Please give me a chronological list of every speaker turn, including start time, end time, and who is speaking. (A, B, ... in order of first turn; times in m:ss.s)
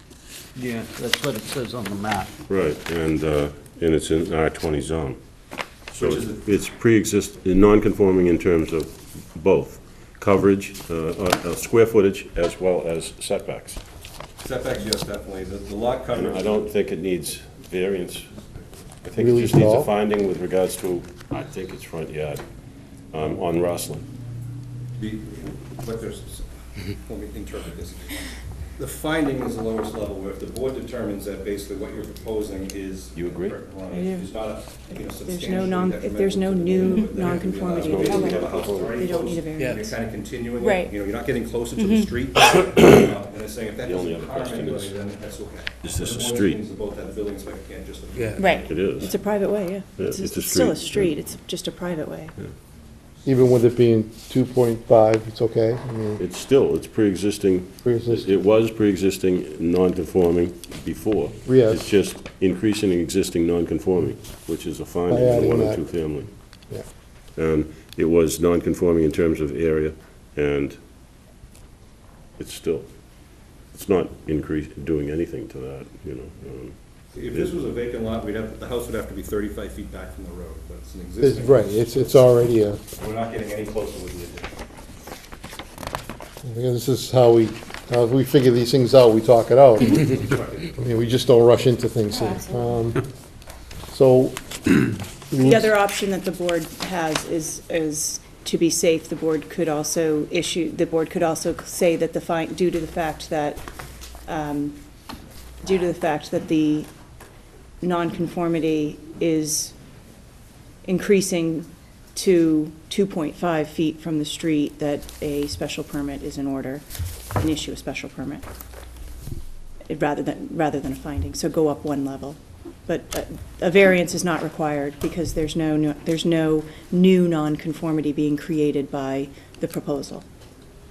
0:00.6-0:02.3 A
0:02.5-0:05.2 B
0:05.9-0:13.8 B
0:05.9-0:06.5 C
0:14.4-0:16.6 C
0:16.1-0:18.3 B
0:19.0-0:22.4 B
0:19.2-0:19.9 D
0:23.1-0:24.1 B
0:25.0-0:48.8 C
0:33.2-0:33.6 B
0:33.9-0:34.3 E
0:35.2-0:40.0 E
0:37.8-0:39.3 B
0:39.6-0:39.9 A
0:40.6-0:40.9 E
0:41.8-0:42.1 E
0:43.8-0:45.0 B
0:45.8-0:46.6 B
0:48.1-0:48.4 A
0:48.4-0:52.4 E
0:48.5-0:49.1 B
0:50.0-0:51.2 B
0:53.2-0:56.2 D
0:56.2-1:06.3 B
0:57.8-0:58.4 D
1:01.5-1:01.9 D
1:05.1-1:05.9 D
1:07.4-1:10.8 B
1:12.4-1:12.9 B
1:13.7-1:16.8 B
1:17.1-1:22.3 C
1:21.2-1:22.8 D
1:23.0-1:24.5 C
1:26.4-1:33.0 D
1:30.1-1:30.6 C
1:33.9-1:34.4 D
1:35.3-1:35.7 D
1:35.4-1:43.6 E
1:44.3-1:44.8 E
1:45.6-1:46.9 E
1:47.8-1:49.7 E
1:50.8-1:56.8 E
1:57.4-1:58.5 E
1:59.9-2:10.2 E